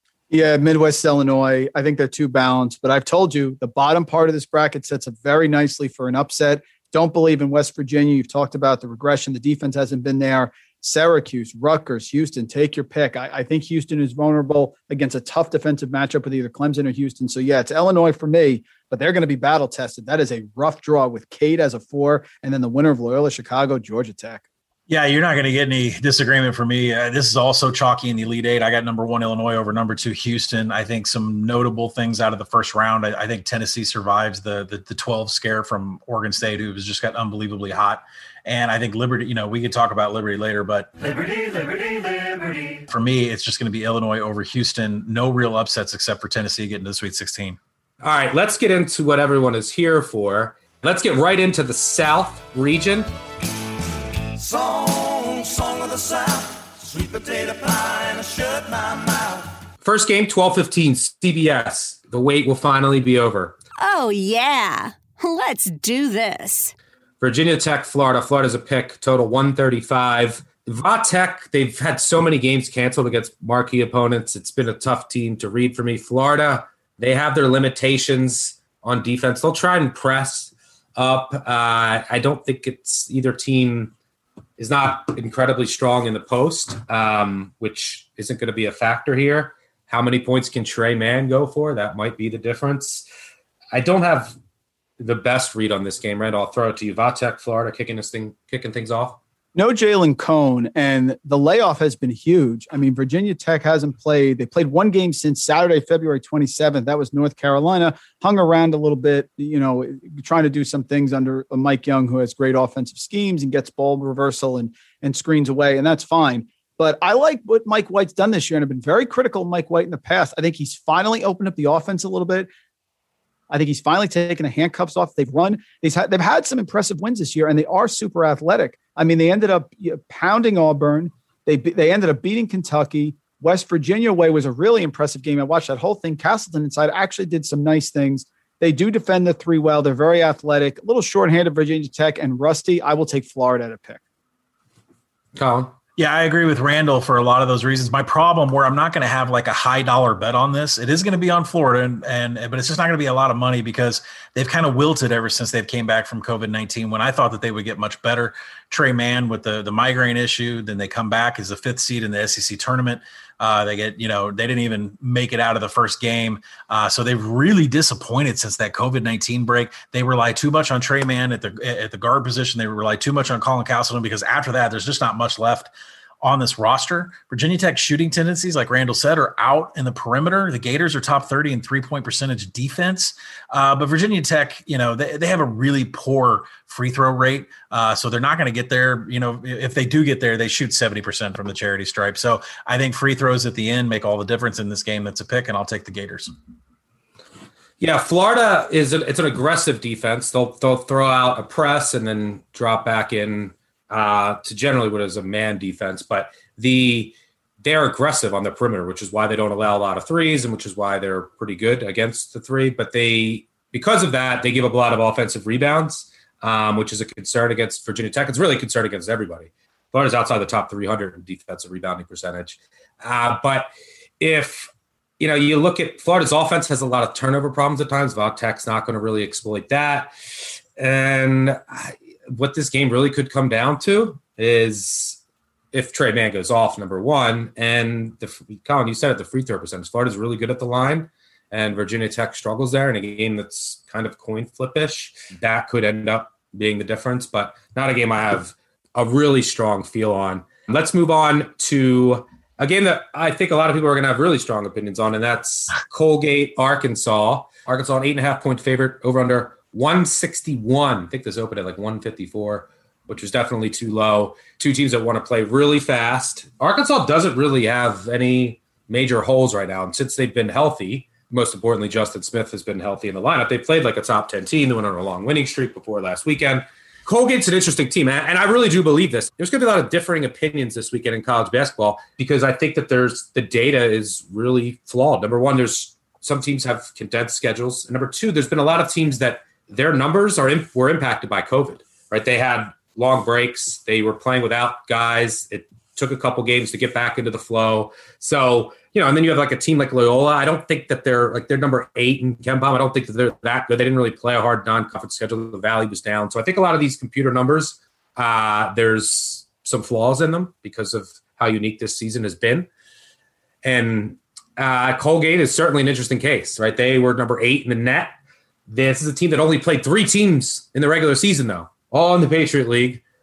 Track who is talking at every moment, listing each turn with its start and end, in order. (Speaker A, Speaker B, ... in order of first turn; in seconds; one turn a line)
Speaker A: 0.3-24.4
Speaker B: 24.9-40.9
Speaker C: 41.5-41.9
Speaker B: 42.9-47.6
Speaker D: 48.0-53.1
Speaker E: 54.4-59.4
Speaker D: 59.8-63.6
Speaker C: 63.8-66.7
Speaker D: 67.2-83.9
Speaker D: 84.6-93.0
Speaker D: 93.7-94.3
Speaker D: 95.0-99.2
Speaker A: 99.5-122.5
Speaker A: 123.5-144.0
Speaker D: 145.3-145.7
Speaker B: 146.0-196.3
Speaker D: 197.8-230.1
Speaker D: 230.8-235.2
Speaker D: 235.7-312.7
Speaker D: 313.6-318.2
Speaker D: 318.7-323.0